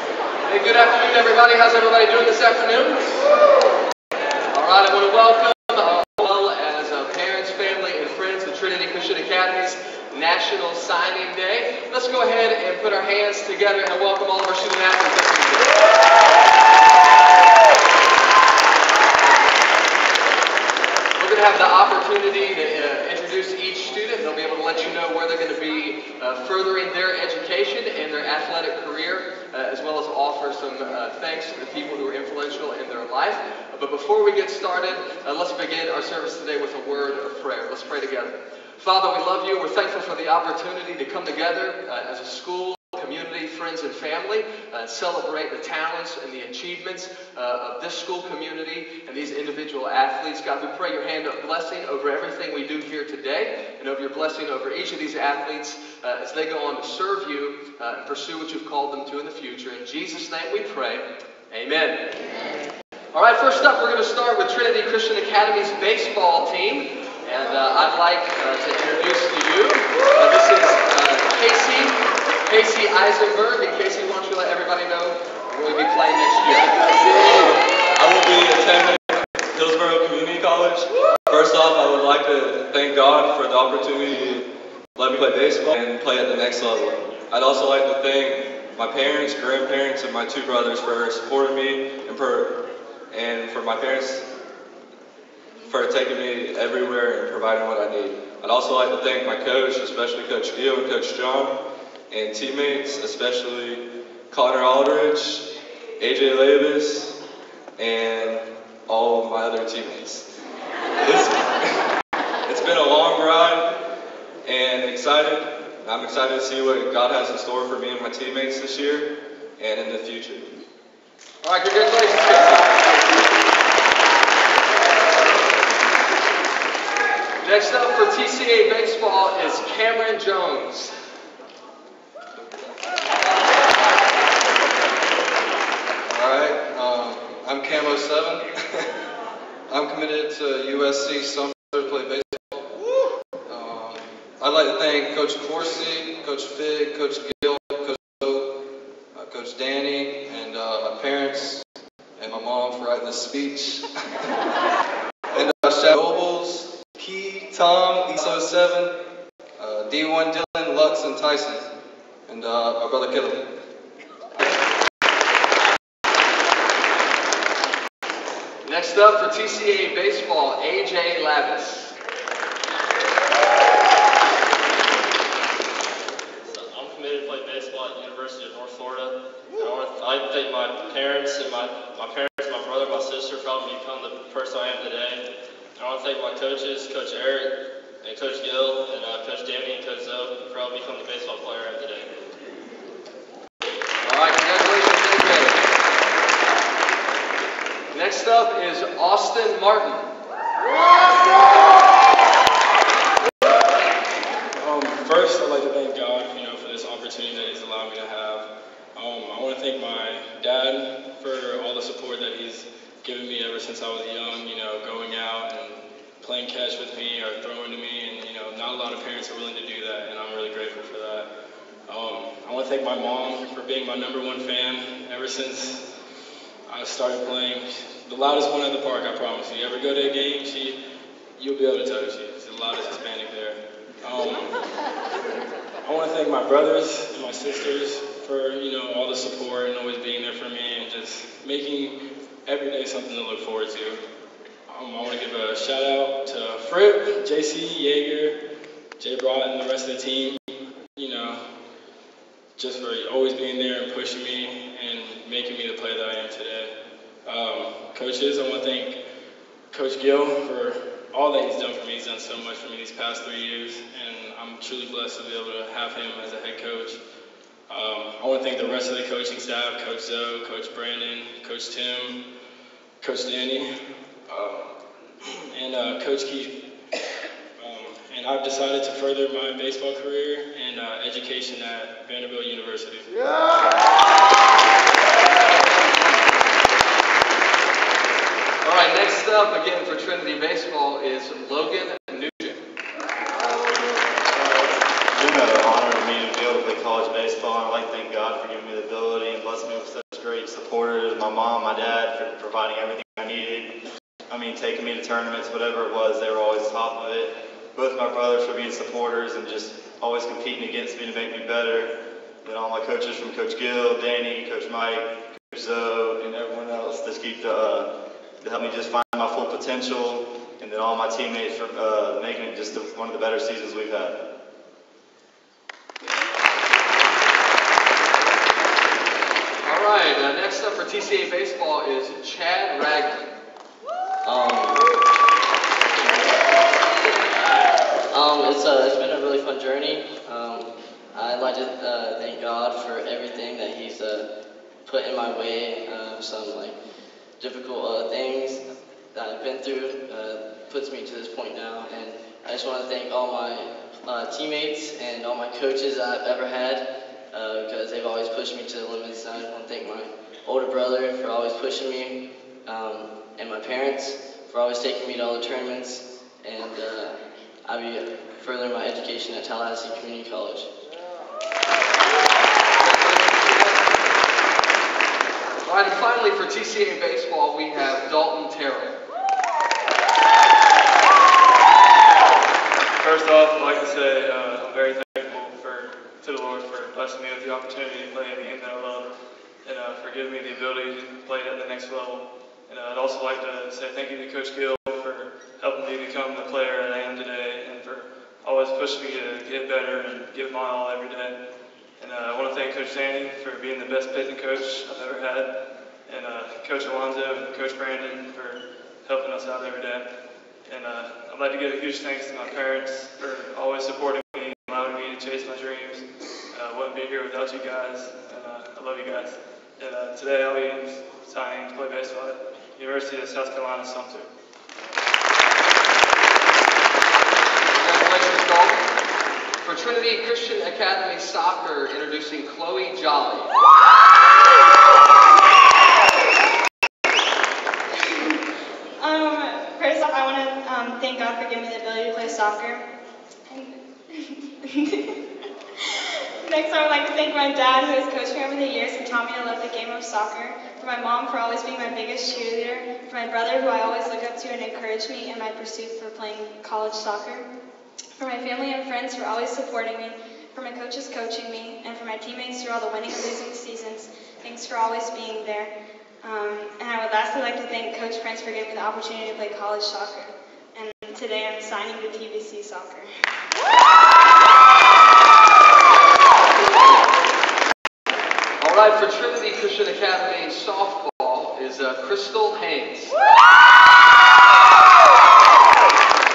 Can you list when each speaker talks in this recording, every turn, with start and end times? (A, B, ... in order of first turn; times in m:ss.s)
0:00.5-0:02.9 A
0:00.7-0:01.2 B
0:04.5-0:15.7 A
0:21.2-1:01.9 A
0:23.2-0:23.8 B
0:48.5-0:49.8 B
1:03.1-1:06.7 A
1:06.7-1:08.2 B
1:07.2-1:12.0 A
1:12.5-1:16.4 A
1:15.0-1:15.9 B
1:16.4-1:16.7 B
1:17.0-1:24.4 C
1:25.0-1:32.6 C
1:33.1-1:34.2 C
1:35.7-1:41.5 C
1:42.1-1:45.5 C
1:46.0-1:47.2 C
1:47.8-1:50.2 C
1:51.0-1:51.8 C
1:52.4-1:53.7 C
1:54.4-2:00.6 C
2:01.4-2:02.3 A
2:02.0-2:02.5 B
2:07.4-2:10.8 A
2:16.1-2:18.5 D
2:19.7-2:22.7 D
2:23.5-2:28.5 D
2:29.1-2:31.6 D
2:32.2-2:33.8 D
2:35.3-2:38.9 D
2:39.6-2:41.6 D
2:42.3-2:43.4 D
2:48.7-2:51.9 A
2:56.5-3:05.2 E
3:05.8-3:12.1 E
3:14.1-3:15.4 A
3:14.4-3:15.5 B
3:17.9-3:20.0 B
3:24.6-3:41.3 F
3:41.9-3:45.8 F
3:46.7-3:50.8 F
3:51.4-3:54.5 F
3:55.8-4:04.0 F
4:04.7-4:08.4 F
4:09.0-4:10.4 F
4:11.0-4:11.4 F
4:12.6-4:16.7 F
4:17.2-4:19.0 F
4:19.7-4:27.0 F
4:27.7-4:32.2 F
4:33.0-4:33.7 F
4:34.3-4:34.7 F
4:35.5-4:36.5 F
4:37.6-4:43.1 F
4:45.3-4:46.2 B
4:45.4-4:45.6 A
4:48.6-4:52.6 B
4:55.4-5:03.7 B
5:04.3-5:11.9 B
5:12.4-5:17.8 B
5:18.4-5:24.1 B
5:29.7-5:33.2 A
5:29.7-5:30.1 B
5:30.9-5:33.2 B
5:34.2-5:34.9 G
5:38.1-5:44.3 G
5:44.8-5:46.8 G
5:47.4-5:48.6 G
5:49.1-6:10.7 G
6:12.8-6:13.7 A
6:12.8-6:13.7 B
6:15.6-6:18.9 A
6:15.7-6:16.6 B
6:17.6-6:18.0 B
6:23.0-6:29.1 H
6:29.6-6:41.4 H
6:42.0-6:45.5 H
6:46.1-6:50.1 H
6:50.7-6:56.0 H
6:56.5-7:04.3 H
7:07.8-7:08.5 B
7:07.8-7:08.8 A
7:09.6-7:13.4 A
7:11.0-7:11.4 B
7:19.0-7:22.8 I
7:23.5-7:25.2 I
7:26.4-7:37.5 I
7:38.2-7:45.7 I
7:46.2-7:53.1 I
7:55.9-7:57.0 A
7:56.0-7:56.7 B
7:58.6-8:03.1 A